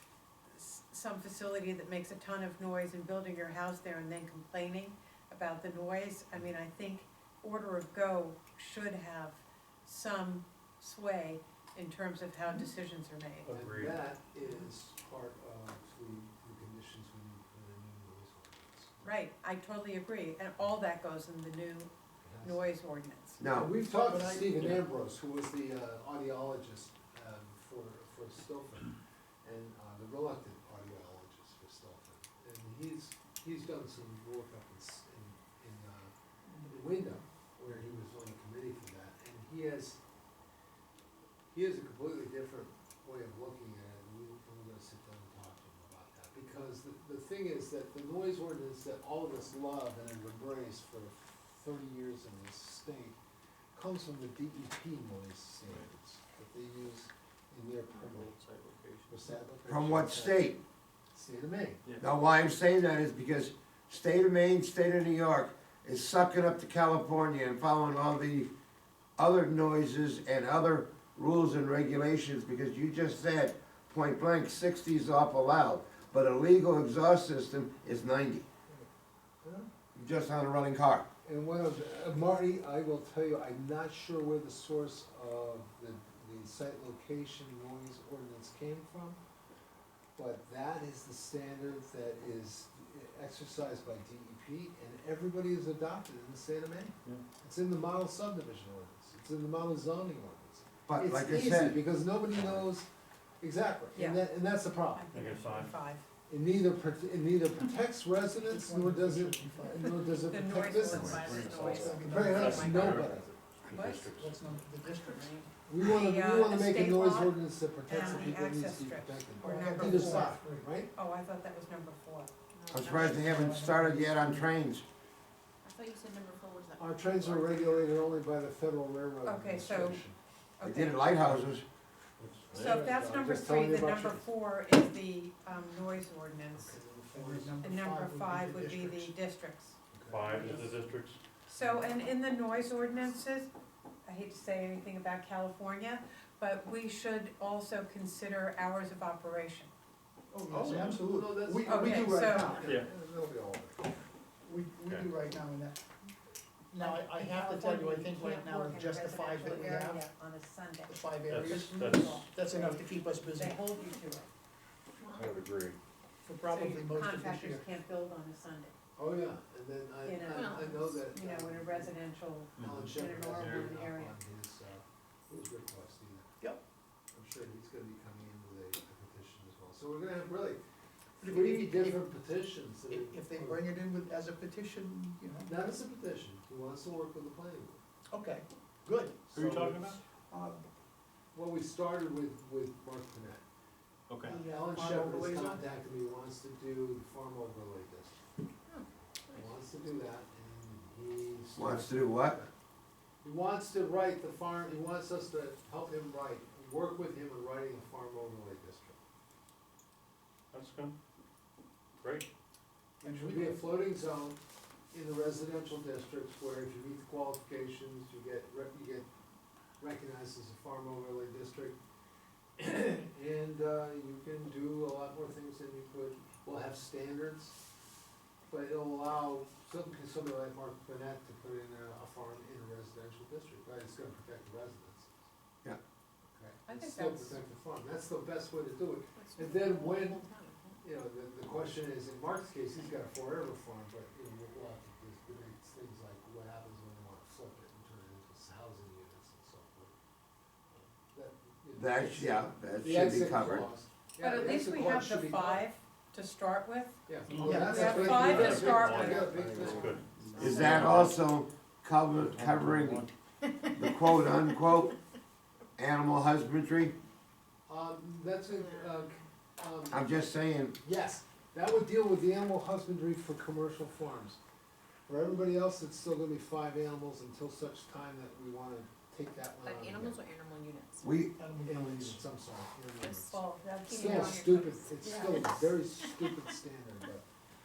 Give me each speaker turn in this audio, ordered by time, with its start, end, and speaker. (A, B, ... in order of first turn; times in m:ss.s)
0:00.5-0:13.5 A
0:13.4-0:14.0 B
0:13.5-0:19.0 C
0:19.0-0:21.9 A
0:22.2-0:22.6 C
0:22.4-0:23.4 A
0:23.4-0:23.7 D
0:23.5-0:40.0 C
0:23.9-0:24.7 E
0:36.6-0:36.9 E
0:41.5-0:53.2 C
0:53.7-0:58.3 C
0:55.6-0:55.9 B
0:58.0-0:59.2 B
0:59.1-1:00.5 C
0:59.7-1:00.6 D
1:01.1-1:01.8 C
1:02.0-1:08.5 D
1:09.2-1:18.5 D
1:19.4-1:19.7 C
1:19.9-1:21.1 D
1:21.2-1:29.2 C
1:30.2-1:42.9 C
1:40.9-1:41.8 D
1:43.4-1:45.0 C
1:43.9-1:44.2 A
1:44.9-1:46.0 A
1:45.1-1:45.8 B
1:46.3-1:53.3 C
1:48.3-1:50.1 E
1:50.2-1:53.0 A
1:50.9-1:54.6 B
1:51.7-1:52.9 E
1:53.7-1:54.1 A
1:54.1-1:55.4 E
1:54.8-2:00.4 A
1:55.6-2:00.9 C
1:59.4-2:00.7 E
2:00.9-2:02.3 A
2:02.5-2:03.1 F
2:02.7-2:04.8 D
2:02.8-2:04.4 E
2:05.6-2:07.9 F
2:06.8-2:10.2 C
2:09.2-2:10.0 A
2:10.6-2:11.3 A
2:10.6-2:11.6 D
2:12.2-2:14.2 C
2:12.5-2:12.8 B
2:12.5-2:16.8 A
2:16.5-2:17.7 C
2:17.1-2:19.1 E
2:17.6-2:19.8 A
2:19.9-2:20.7 C
2:20.0-2:21.2 B
2:21.5-2:21.9 C
2:21.5-2:23.5 A
2:24.0-2:29.7 A
2:30.3-2:32.8 E
2:30.5-2:33.9 C
2:31.6-2:32.6 A
2:32.6-2:32.9 B
2:34.4-2:35.8 E
2:34.8-2:35.1 B
2:36.7-2:40.1 E
2:36.8-2:44.3 A
2:40.9-2:43.6 E
2:41.3-2:42.3 B
2:45.0-2:45.3 F
2:45.1-2:45.8 B
2:46.2-2:47.7 E
2:46.4-2:48.7 A
2:49.0-2:52.0 C
2:50.0-2:54.2 A
2:50.3-2:51.0 F
2:52.6-2:53.7 B
2:52.6-2:56.3 C
2:57.1-3:00.6 C
3:01.2-3:02.0 E
3:01.2-3:03.7 C
3:02.9-3:05.7 E
3:05.4-3:07.8 C
3:08.1-3:10.6 E
3:09.3-3:10.0 B
3:09.3-3:09.7 C
3:11.3-3:13.4 C
3:14.1-3:14.4 B
3:14.2-3:18.2 C
3:14.2-3:15.6 E
3:18.6-3:19.8 F
3:19.3-3:22.5 C
3:21.6-3:22.4 D
3:23.2-3:29.0 C
3:30.5-3:31.0 B
3:32.0-3:32.3 B
3:33.0-3:34.4 C
3:33.0-3:33.6 E
3:34.9-3:39.1 C
3:39.8-3:41.8 C
3:42.6-3:47.5 C
3:48.5-3:55.3 C
3:56.3-4:00.2 C
3:56.6-3:57.4 A
3:59.1-4:00.8 F
4:00.8-4:09.9 C
4:10.7-4:15.7 C
4:11.8-4:13.7 D
4:14.2-4:19.7 A
4:17.1-4:21.0 C
4:17.4-4:18.4 E
4:18.1-4:21.2 B
4:20.4-4:23.0 D
4:22.2-4:23.1 B
4:23.4-4:24.9 F
4:23.7-4:24.9 D
4:25.8-4:26.9 D
4:27.7-4:30.1 C
4:28.5-4:29.2 F
4:29.9-4:30.8 D
4:30.8-4:34.4 C
4:35.1-4:40.2 C
4:39.6-4:41.1 F
4:41.0-4:41.4 D
4:41.4-4:42.2 E
4:41.6-4:47.2 C
4:43.0-4:44.4 A
4:43.6-4:46.3 F